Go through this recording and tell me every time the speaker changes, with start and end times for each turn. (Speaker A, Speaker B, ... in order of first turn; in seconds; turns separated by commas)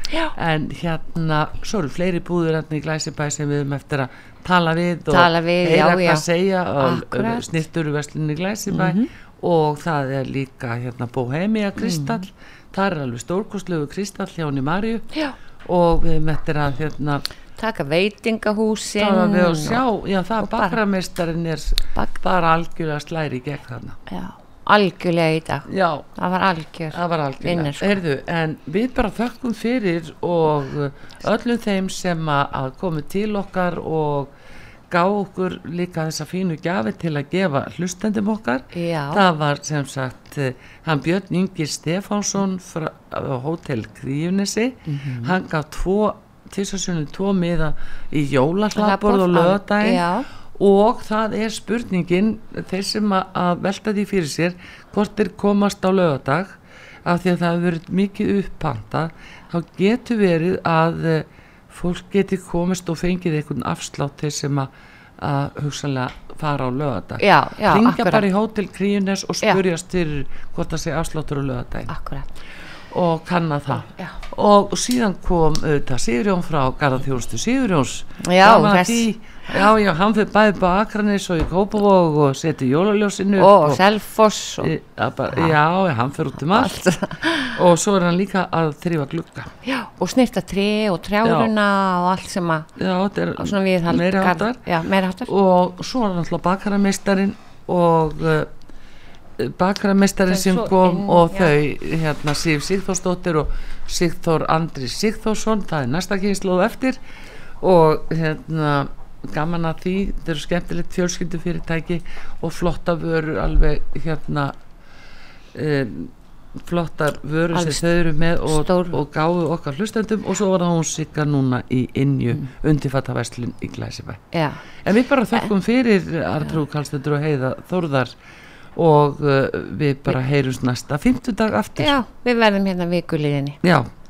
Speaker A: 0.4-15.1, Speaker B: 5.1-6.2, Speaker B: 6.8-7.5, Speaker B: 8.7-9.1, Speaker B: 11.8-12.2, Speaker A: 15.7-17.2, Speaker B: 17.6-19.8, Speaker A: 19.0-24.0, Speaker B: 20.4-20.8, Speaker B: 24.1-28.0, Speaker A: 25.7-26.1, Speaker A: 26.9-34.3, Speaker A: 34.9-50.0, Speaker B: 38.7-39.2, Speaker B: 44.9-45.4, Speaker B: 48.8-50.2, Speaker A: 50.6-64.7, Speaker A: 65.2-71.9, Speaker B: 67.2-68.2, Speaker B: 71.9-72.3, Speaker A: 72.9-83.8, Speaker B: 73.7-74.2, Speaker B: 78.2-79.1, Speaker B: 83.4-84.7, Speaker A: 84.6-86.8, Speaker B: 86.5-87.6, Speaker A: 87.5-89.5, Speaker B: 89.7-92.7, Speaker A: 91.2-91.5, Speaker A: 92.8-94.6, Speaker B: 93.4-95.3, Speaker A: 95.3-98.5, Speaker A: 99.4-107.0, Speaker B: 100.3-101.5, Speaker A: 107.6-114.5, Speaker A: 115.5-124.2, Speaker B: 117.5-117.8, Speaker B: 118.5-119.0, Speaker B: 124.3-124.6, Speaker A: 124.8-128.1, Speaker A: 128.8-132.0, Speaker B: 131.8-133.6